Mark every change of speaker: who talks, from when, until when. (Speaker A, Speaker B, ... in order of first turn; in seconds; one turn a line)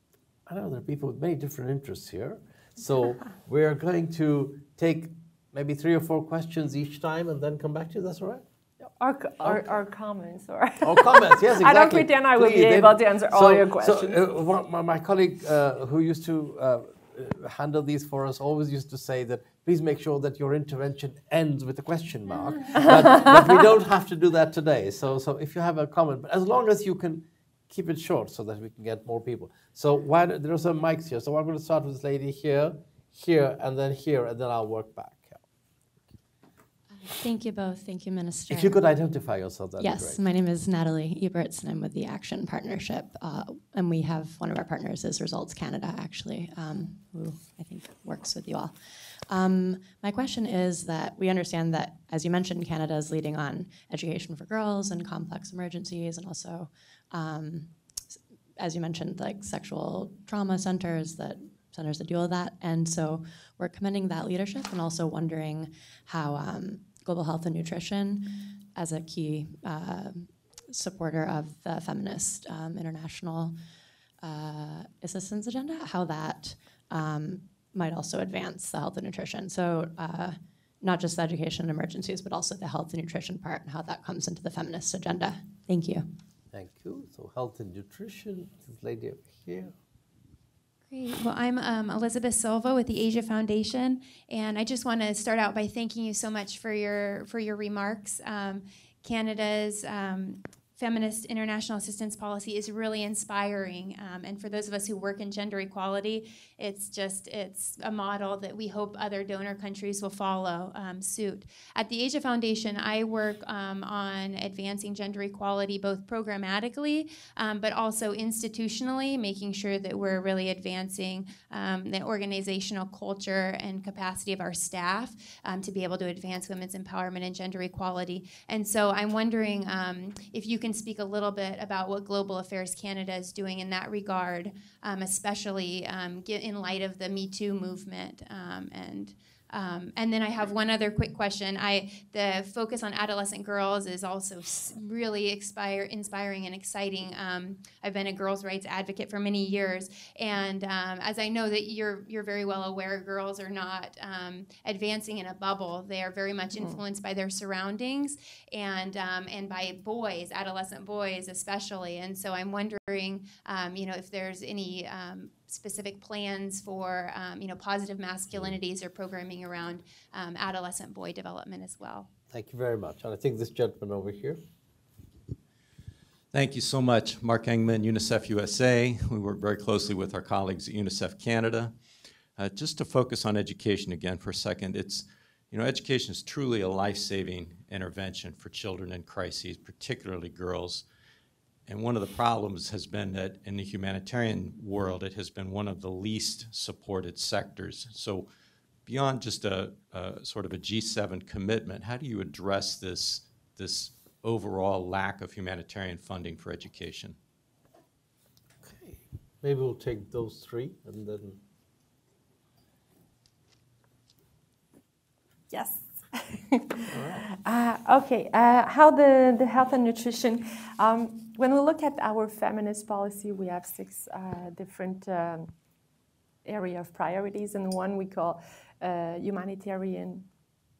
Speaker A: 0.5-8.9
Speaker B: 9.0-14.2
Speaker A: 10.8-35.4
Speaker B: 23.1-23.4
Speaker C: 37.0-38.8
Speaker A: 38.5-40.2
Speaker C: 39.8-73.5
Speaker C: 74.2-86.1
Speaker A: 86.5-89.8
Speaker D: 90.9-172.1
Speaker A: 172.3-174.4
Speaker E: 176.3-181.8
Speaker E: 182.4-190.9
Speaker E: 191.7-198.3
Speaker E: 198.9-207.2
Speaker A: 208.6-211.4
Speaker B: 215.5-225.5
Speaker A: 216.9-217.3
Speaker B: 226.4-230.3